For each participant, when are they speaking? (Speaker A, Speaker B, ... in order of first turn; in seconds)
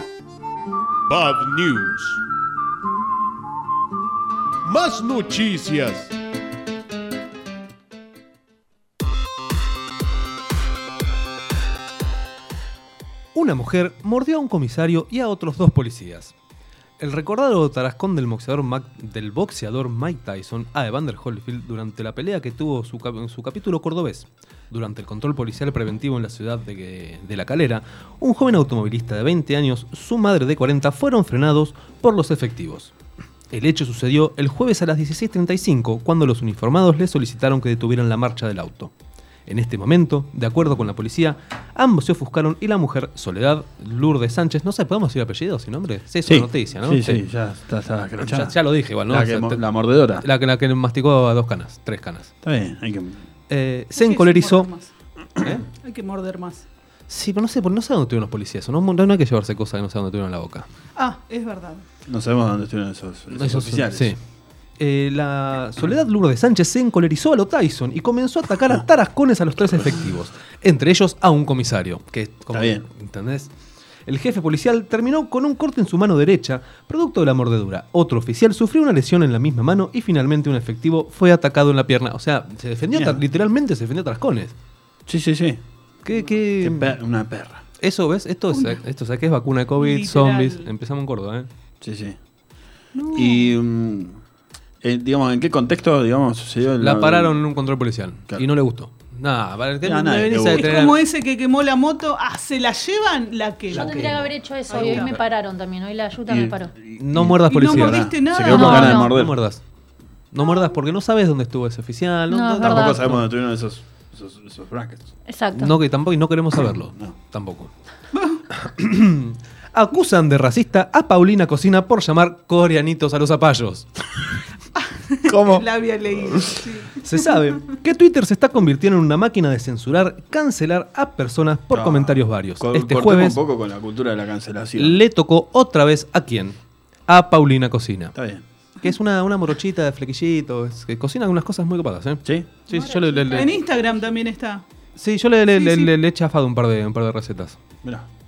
Speaker A: 1.1-2.2, 4.7-6.1
Speaker B: 13.3-16.3, 17.0-32.9, 33.5-38.9, 39.5-47.2, 48.2-49.6, 50.1-52.3, 53.5-54.7, 55.4-55.6, 57.1-60.6, 63.3-64.2, 64.8-73.5, 74.1-84.5, 86.0-87.0, 87.8-91.5, 96.8-101.0, 103.7-105.2, 107.0-109.6, 110.3-113.2, 115.5-117.7, 118.5-123.9, 127.0-133.4, 134.8-138.1, 138.8-143.5, 145.0-147.6
Speaker C: 46.2-48.6, 49.1-50.2, 52.4-53.2, 62.1-64.1, 72.5-72.8, 82.9-83.2, 85.1-85.6, 86.5-87.6, 91.8-92.2, 93.1-94.1, 94.8-97.4, 99.8-100.8, 106.3-109.3, 112.6-115.1, 125.2-126.6, 131.7-135.0, 138.1-138.4, 142.2-142.5
Speaker D: 54.0-54.9, 55.8-56.6, 61.0-61.8, 88.5-88.8, 89.8-90.7, 93.0-93.4, 100.5-104.1, 104.7-105.2, 107.5-109.0, 125.1-127.5, 143.3-144.6, 145.5-145.9
Speaker E: 103.7-106.7, 108.4-109.1, 112.3-113.0, 115.3-115.8, 142.7-144.1